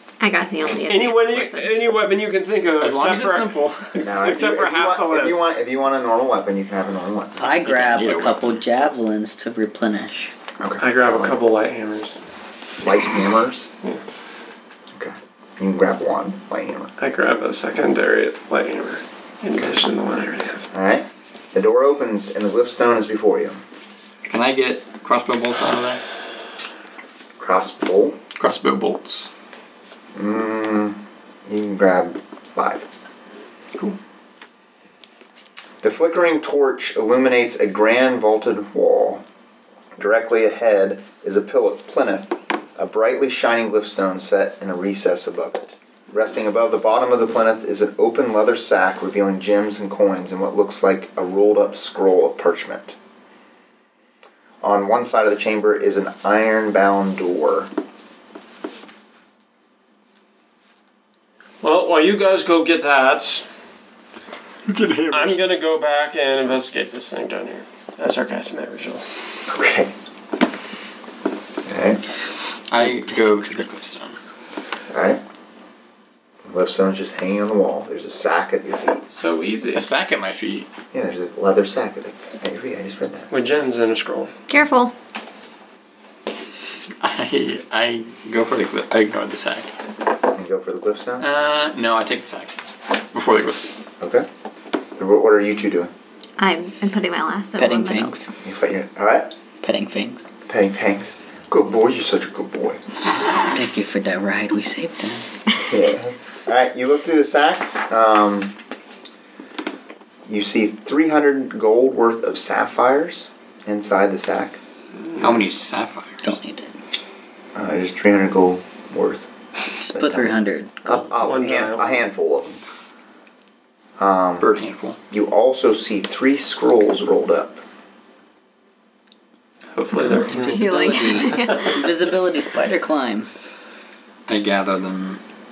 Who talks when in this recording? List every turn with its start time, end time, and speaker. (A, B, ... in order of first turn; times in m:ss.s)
0:00.2-0:01.7 A
0:00.8-0:05.4 B
0:02.8-0:03.8 C
0:04.0-0:07.4 D
0:07.4-0:10.3 E
0:07.4-0:08.5 C
0:10.6-0:11.4 D
0:10.8-0:12.2 B
0:12.8-0:13.7 D
0:14.9-0:16.9 D
0:17.0-0:20.6 B
0:20.7-0:23.6 D
0:24.3-0:26.0 C
0:27.4-0:28.2 D
0:28.4-0:29.3 C
0:30.1-0:32.9 D
0:35.8-0:39.2 D
0:40.0-0:52.9 D
0:54.6-0:57.7 D
1:01.6-1:03.4 B
1:04.7-1:05.4 C
1:05.1-1:09.0 B
1:09.5-1:09.9 D
1:11.6-1:12.0 D
1:12.7-1:14.3 C
1:12.8-1:13.6 E
1:14.9-1:15.2 D
1:16.5-1:19.0 D
1:19.1-1:19.8 B
1:19.7-1:20.7 C
1:20.9-1:23.3 D
1:23.3-1:24.3 B
1:24.5-1:24.9 A
1:27.0-1:29.7 C
1:30.3-1:31.3 D
1:31.2-1:32.6 C
1:33.1-1:33.7 C
1:34.0-1:34.3 D
1:35.0-1:35.9 D
1:36.4-1:38.3 A
1:37.6-1:38.2 E
1:38.4-1:39.3 D
1:39.6-1:40.3 E
1:40.5-1:42.8 D
1:43.4-1:45.2 E
1:45.6-1:48.6 D
1:50.3-1:54.6 D
1:55.1-1:55.4 B
1:55.2-1:56.2 C
1:56.2-1:56.7 E
1:57.5-1:59.3 D
1:59.8-2:01.0 E
1:59.9-2:02.6 D
2:01.2-2:02.0 B
2:04.0-2:04.5 D
2:04.4-2:05.0 C
2:05.1-2:07.6 D
2:09.7-2:11.8 B
2:10.2-2:13.3 E
2:10.4-2:11.7 A
2:14.3-2:15.2 C